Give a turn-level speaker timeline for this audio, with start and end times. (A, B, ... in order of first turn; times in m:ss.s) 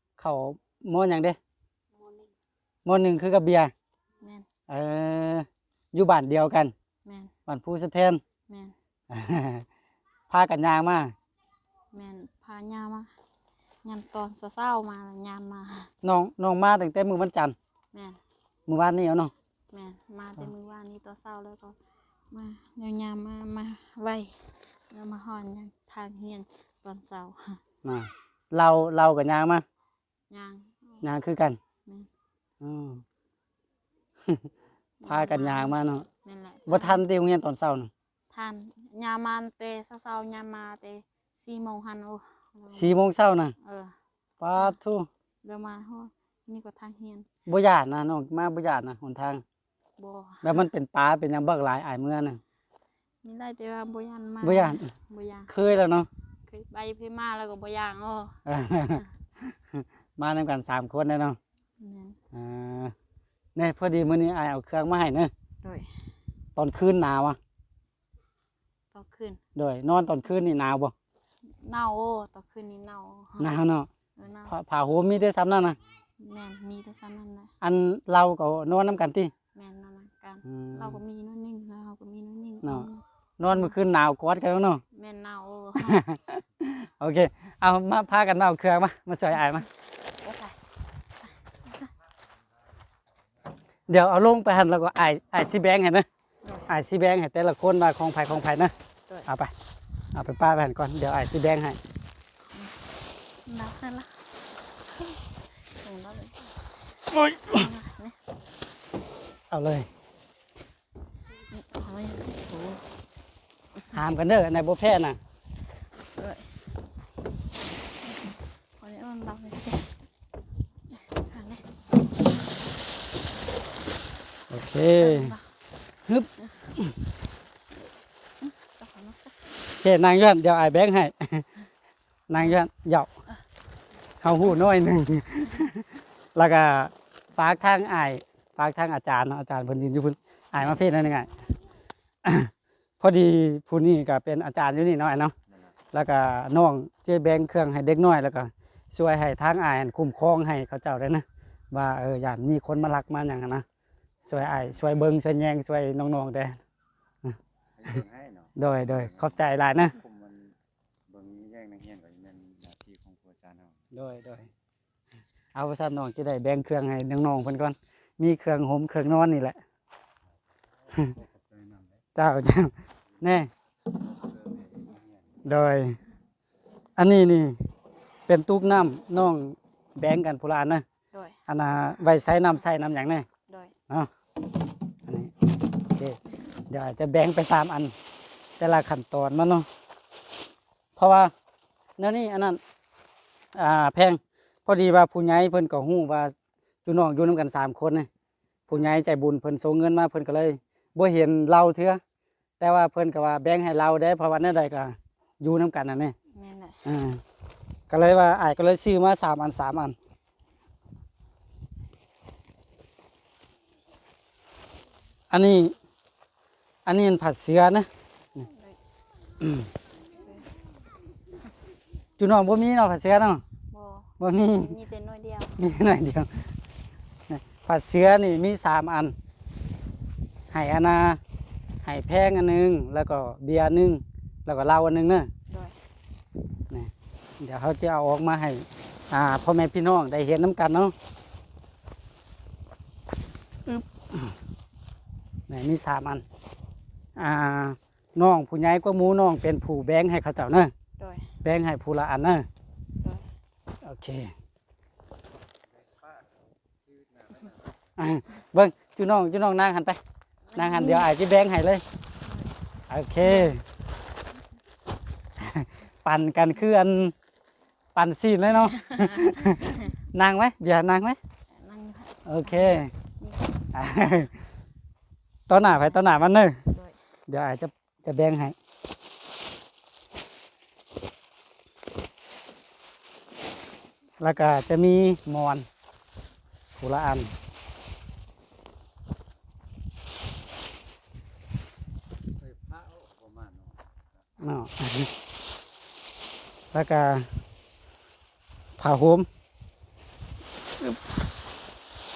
0:00.2-0:01.4 A
0:02.8-0:03.7 A
0:04.2-0:04.5 B
0:04.7-0:06.7 A
0:07.0-0:07.3 B
0:07.5-0:08.2 A
0:08.5-0:08.8 B
0:09.1-0:09.6 A
0:10.3-0:11.2 A
0:11.9-0:13.1 B
0:13.8-0:15.9 B
0:16.0-0:17.6 A
0:17.9-0:18.2 B
0:18.7-0:19.3 A
0:19.7-0:21.8 B
0:22.3-0:27.6 B
0:27.8-0:29.6 A
0:30.3-0:31.0 B
0:31.0-0:31.6 A
0:32.6-0:33.0 A
0:35.0-0:37.0 B
0:35.1-0:36.1 A
0:36.7-0:37.9 A
0:38.3-0:42.9 B
0:42.7-0:43.5 A
0:43.6-0:44.0 B
0:44.4-0:45.1 A
0:45.4-0:47.3 B
0:47.5-0:49.4 A
0:50.0-0:50.7 B
0:50.4-0:52.4 A
0:53.2-0:55.5 B
0:54.4-0:54.9 A
0:55.5-0:56.1 A
0:56.5-0:58.4 B
0:58.5-1:01.4 A
1:01.8-1:02.2 B
1:02.3-1:02.9 A
1:03.6-1:05.3 A
1:05.6-1:06.0 B
1:06.6-1:07.4 A
1:08.9-1:09.4 B
1:09.6-1:10.9 A
1:11.4-1:13.5 B
1:13.4-1:13.9 A
1:14.2-1:14.6 B
1:14.5-1:15.8 A
1:16.2-1:17.5 B
1:17.6-1:19.3 A
1:19.6-1:23.7 B
1:20.4-1:21.0 A
1:23.4-1:24.8 A
1:24.9-1:26.1 B
1:25.8-1:29.7 A
1:30.2-1:30.6 B
1:31.6-1:31.9 B
1:33.9-1:36.1 A
1:36.4-1:36.7 B
1:36.7-1:38.7 A
1:39.3-1:39.5 A
1:40.1-1:41.8 A
1:42.5-1:42.8 B
1:43.4-1:44.2 B
1:44.9-1:46.6 B
1:47.1-1:47.6 A
1:47.2-1:48.2 B
1:49.5-1:49.9 A
1:51.5-1:52.9 B
1:53.9-1:55.2 A
1:56.2-1:56.6 B
1:58.0-2:00.0 B
2:00.9-2:01.6 B
2:04.5-2:05.4 A
2:05.0-2:05.5 B
2:06.1-2:07.1 A
2:08.4-2:09.5 B
2:09.8-2:11.5 A
2:12.3-2:13.1 A
2:14.2-2:21.4 A
2:22.2-2:25.3 A
2:25.9-2:33.6 A
2:34.2-2:36.6 A
2:37.2-2:38.0 A
2:38.6-2:40.0 A
2:41.2-2:43.7 C
2:43.9-2:44.5 A
2:45.6-2:49.6 A
2:52.2-2:53.5 A
2:55.4-2:56.0 A
2:57.0-2:57.6 A
2:58.3-3:00.8 A
3:01.1-3:01.4 B
3:01.5-3:03.3 A
3:03.5-3:03.7 B
3:05.1-3:06.2 A
3:06.7-3:07.9 A
3:08.6-3:09.7 A
3:11.0-3:11.3 A
3:12.0-3:12.6 A
3:13.5-3:16.3 A
3:16.8-3:18.1 A
3:18.7-3:22.0 A
3:22.6-3:26.2 A
3:26.3-3:26.8 B
3:26.8-3:27.2 A
3:27.9-3:30.0 A
3:35.3-3:35.7 A
3:36.9-3:37.9 A
3:38.4-3:38.8 B
3:39.4-3:39.7 A
3:40.2-3:40.5 B
3:42.2-3:43.4 A
3:43.7-3:45.6 B
3:44.2-3:44.7 A
3:45.6-3:46.5 A
3:47.3-3:49.2 A
3:50.5-3:51.2 A
3:51.8-3:55.3 A
3:55.5-3:55.8 B
3:56.7-4:00.9 A
4:03.7-4:04.4 A
4:05.5-4:06.2 A
4:07.2-4:10.7 A
4:11.0-4:11.3 B
4:11.4-4:12.5 A
4:13.0-4:13.3 B
4:13.8-4:14.3 A
4:18.0-4:20.0 A
4:20.5-4:21.1 B
4:20.6-4:21.8 A
4:22.2-4:22.6 B
4:22.9-4:23.6 A
4:23.2-4:23.5 B
4:25.4-4:27.1 A
4:28.0-4:31.2 A
4:28.6-4:29.9 B
4:31.5-4:33.7 B
4:32.2-4:32.9 A
4:33.7-4:34.4 A
4:35.5-4:36.6 A
4:36.7-4:37.0 B
4:37.3-4:38.6 A
4:44.2-4:45.7 A
4:46.8-4:47.3 A
4:54.4-4:55.1 A
4:56.7-4:57.3 A
4:58.8-4:59.3 A